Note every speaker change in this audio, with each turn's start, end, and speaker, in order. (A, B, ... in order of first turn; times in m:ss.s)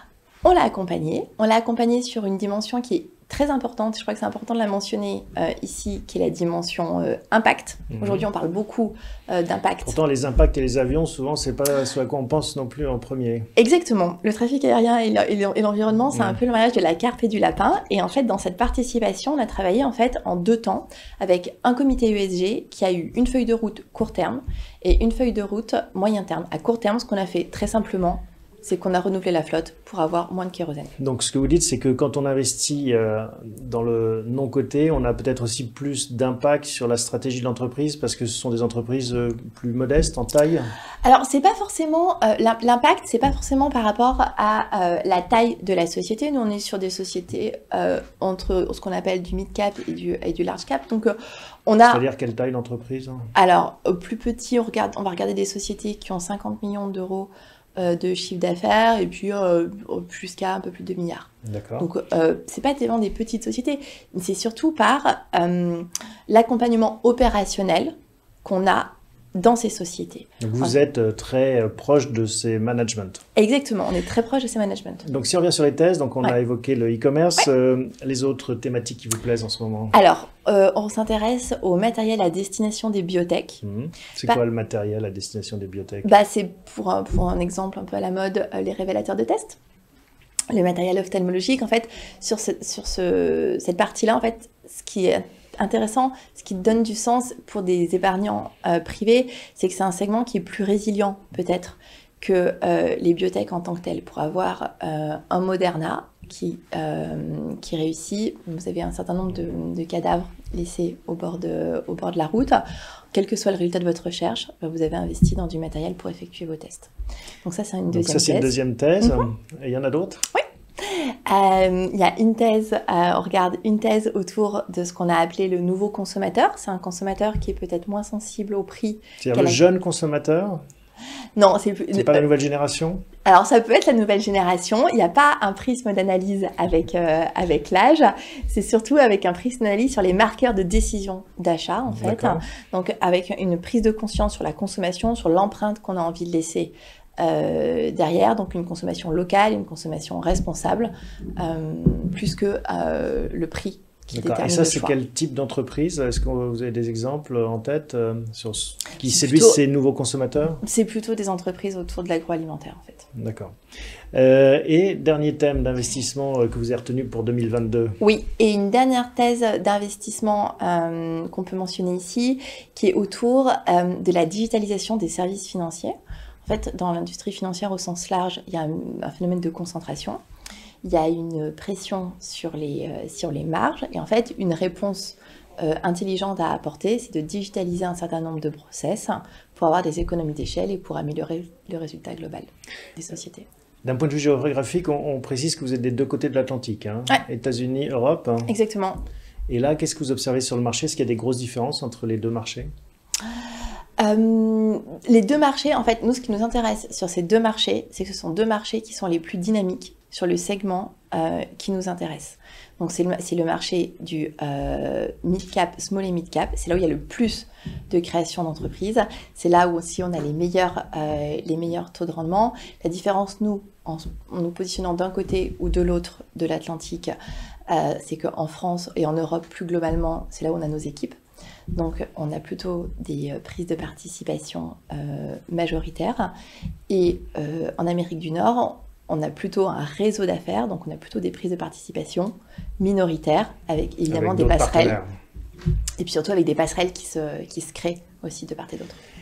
0:00.4-0:10.0 A
0:08.0-0:08.2 B
0:09.8-0:13.5 B
0:13.6-0:30.9 A
0:31.0-0:40.7 B
0:41.0-0:52.0 A
0:51.9-0:53.3 B
0:53.3-1:07.9 A
1:01.4-1:01.9 B
1:08.4-1:10.7 A
1:10.4-1:13.2 B
1:13.4-1:15.0 A
1:15.0-1:19.9 B
1:19.9-1:23.6 A
1:23.6-1:26.1 B
1:26.0-1:29.6 A
1:30.5-1:52.6 A
1:53.1-1:56.9 A
1:57.4-1:59.2 A
1:57.9-2:00.2 B
2:00.3-2:09.6 A
2:09.2-2:10.6 B
2:11.4-2:12.3 A
2:11.9-2:13.0 B
2:13.2-2:34.9 A
2:21.9-2:22.4 B
2:34.1-2:40.6 B
2:39.1-2:39.6 A
2:40.6-2:43.1 A
2:43.1-2:43.5 B
2:44.1-2:48.0 B
2:48.0-3:00.2 A
3:00.8-3:13.5 A
3:13.8-3:18.5 B
3:18.5-3:19.0 A
3:19.5-3:22.7 B
3:24.0-3:47.1 A
3:47.7-3:51.1 A
3:51.7-3:56.3 A
3:56.9-4:05.0 A
4:04.1-4:05.1 B
4:06.0-4:09.0 A